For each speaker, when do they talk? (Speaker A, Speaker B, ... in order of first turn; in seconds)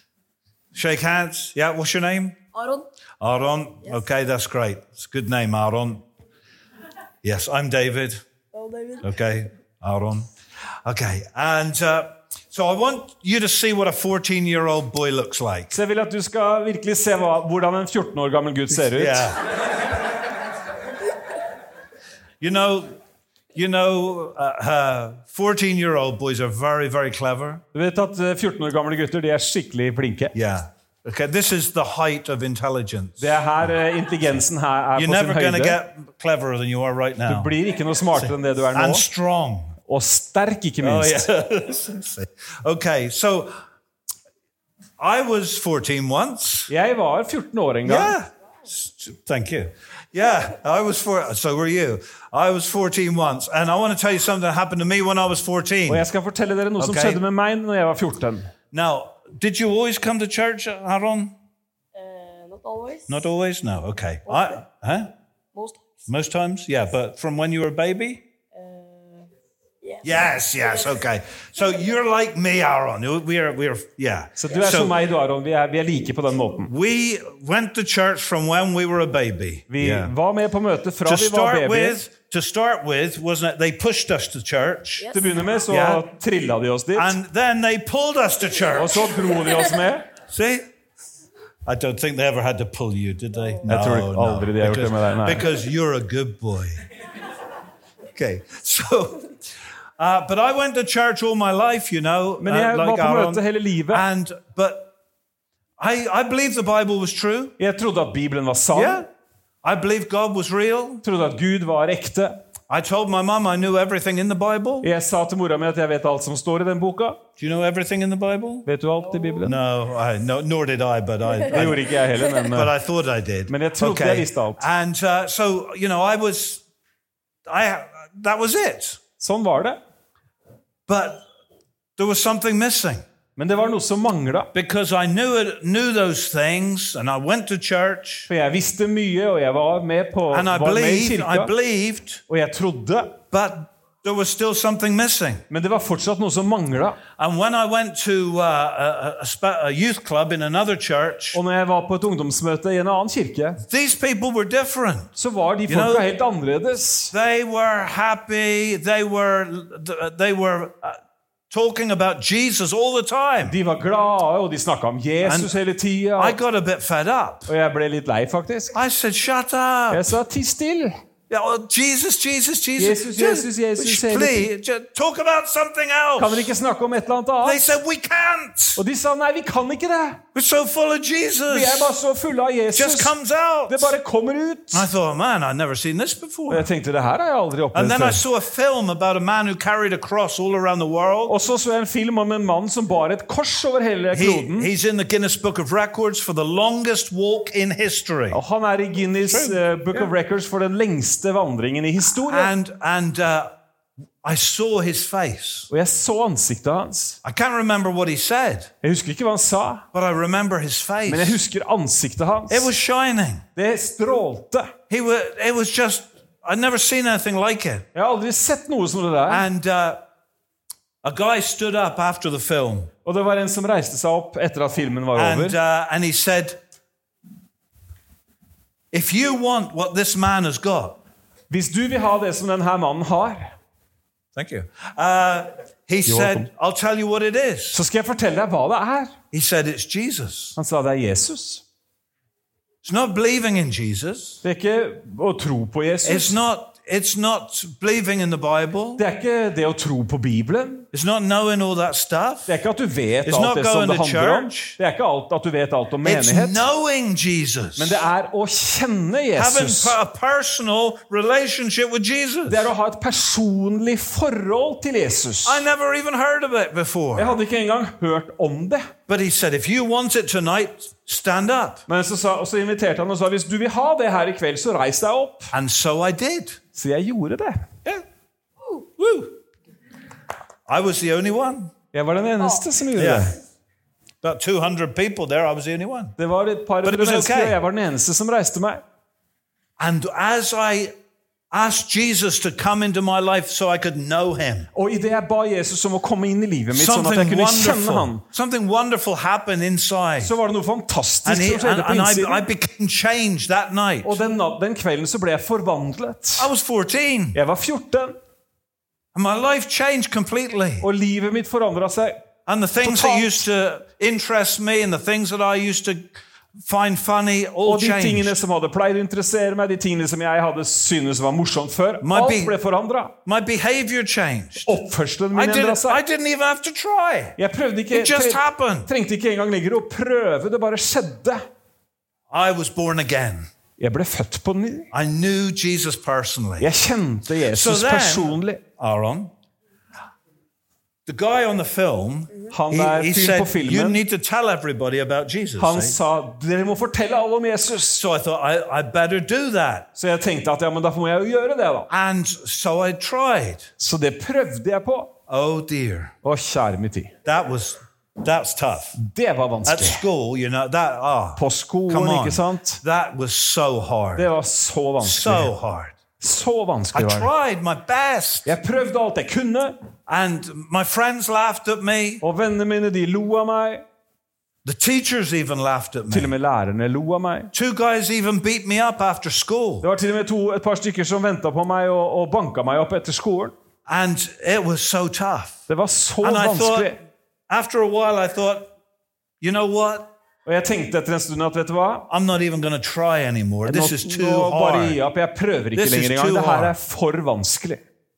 Speaker A: 0.7-2.4, 3.2-6.0, 7.2-8.2, 9.0-10.3, 10.8-15.8, 18.8-19.5, 22.4-23.0, 23.5-27.6, 30.3-33.4, 35.0-37.5, 38.2-39.8, 40.8-43.6, 45.0-46.7, 47.9-56.1, 56.8-57.2, 58.7-61.3, 63.1-65.1, 66.1-68.2, 70.0-75.0, 76.7-80.1, 81.0-85.1, 85.7-86.0, 87.0-89.1, 90.3-90.7, 91.7-96.8, 98.1-99.3, 100.0-104.9, 105.8-107.5, 108.7-109.1, 109.6-111.0, 112.7-114.9, 117.4-118.7, 119.4-121.9, 122.5-126.6, 127.5-129.0, 130.9-131.2, 132.0-133.0, 134.5-138.3, 140.3-142.2, 143.3-145.4, 147.2-151.4, 153.6-155.1, 155.7-156.1, 157.1-161.0, 161.5-163.6, 165.2-165.5, 166.2-167.5, 168.7-170.2, 171.3-176.5, 177.4-178.8, 180.3-181.9, 182.7-183.9, 184.7-186.7, 187.7-191.3, 194.1-198.4, 199.2-200.1, 202.2-203.6, 204.2-205.7, 207.2-208.7, 209.9-211.4, 212.5-213.4, 214.9-217.8, 219.3-220.0, 221.0-222.9, 225.2-226.6, 228.9-231.0, 234.4-237.8, 239.3-240.6, 242.8-244.4, 246.0-249.0, 250.9-252.5, 253.3-254.8, 256.0-258.0, 259.4-262.7, 265.4-267.3, 269.1-271.9, 275.5-276.6, 279.0-279.3, 280.7-281.7, 283.0-283.4, 284.2-286.1, 286.8-287.6, 289.8-290.9, 291.5-294.7, 296.7-300.3, 301.2-304.2, 306.4-307.4, 309.1-310.9, 312.5-318.4, 322.0-322.6, 323.2-324.8, 325.3-327.4, 327.9-328.9, 332.3-333.5, 334.9-336.7, 337.5-339.3, 341.1-346.0, 347.9-349.9, 351.9-353.7, 355.3-356.1, 357.2-359.0, 359.7-364.3, 365.0-366.0, 366.9-368.6, 370.1-372.2, 374.6-376.3, 377.5-379.9, 383.9-385.6, 386.2-387.0, 387.5-388.7, 389.4-390.1, 392.1-395.0, 395.7-396.8
Speaker B: 2.5-2.9, 8.5-9.1, 61.9-63.2, 64.3-64.6, 65.5-66.1, 68.5-69.3, 69.8-70.7, 85.0-85.6, 119.0-119.5, 121.4-122.5
Speaker C: 15.7-19.3, 27.7-30.3, 33.2-35.8, 37.3-39.0, 39.9-41.2, 46.7-48.1, 55.9-58.5, 74.4-76.7, 79.7-82.0, 85.1-87.2, 88.8-90.1, 93.7-95.5, 102.4-104.0, 107.6-109.0, 111.0-112.4, 114.8-117.2, 118.7-119.5, 121.5-122.7, 123.5-124.6, 129.2-129.8, 133.4-134.5, 138.3-141.5, 142.3-143.2, 145.5-147.0, 151.3-153.6, 155.2-157.1, 163.4-166.4, 167.5-168.7, 169.9-170.9, 172.8-174.5, 176.2-177.7, 178.8-180.2, 181.5-183.2, 183.7-184.9, 186.5-188.2, 191.3-194.7, 198.3-202.5, 205.7-207.2, 208.8-209.8, 211.1-212.7, 213.6-214.7, 217.9-219.5, 223.1-225.6, 231.5-233.5, 236.1-236.5, 237.7-239.2, 240.6-241.6, 244.4-246.4, 249.0-250.9, 252.5-256.6, 257.8-260.0, 262.5-265.6, 267.2-268.9, 271.9-275.5, 276.8-277.7, 281.9-283.4, 286.2-288.8, 294.7-298.2, 300.2-302.4, 304.0-306.5, 307.3-308.2, 310.8-312.2, 312.8-313.4, 317.6-323.1, 324.6-326.0, 327.4-331.4, 333.8-334.9, 336.6-338.6, 342.5-344.0, 345.6-348.0, 349.9-351.9, 353.8-355.1, 356.2-357.1, 359.0-360.0, 361.4-362.8, 364.2-365.5, 366.2-367.3, 368.5-369.8, 372.2-373.9, 376.1-377.5, 379.8-383.5, 385.7-387.0, 390.4-392.1, 393.6-397.8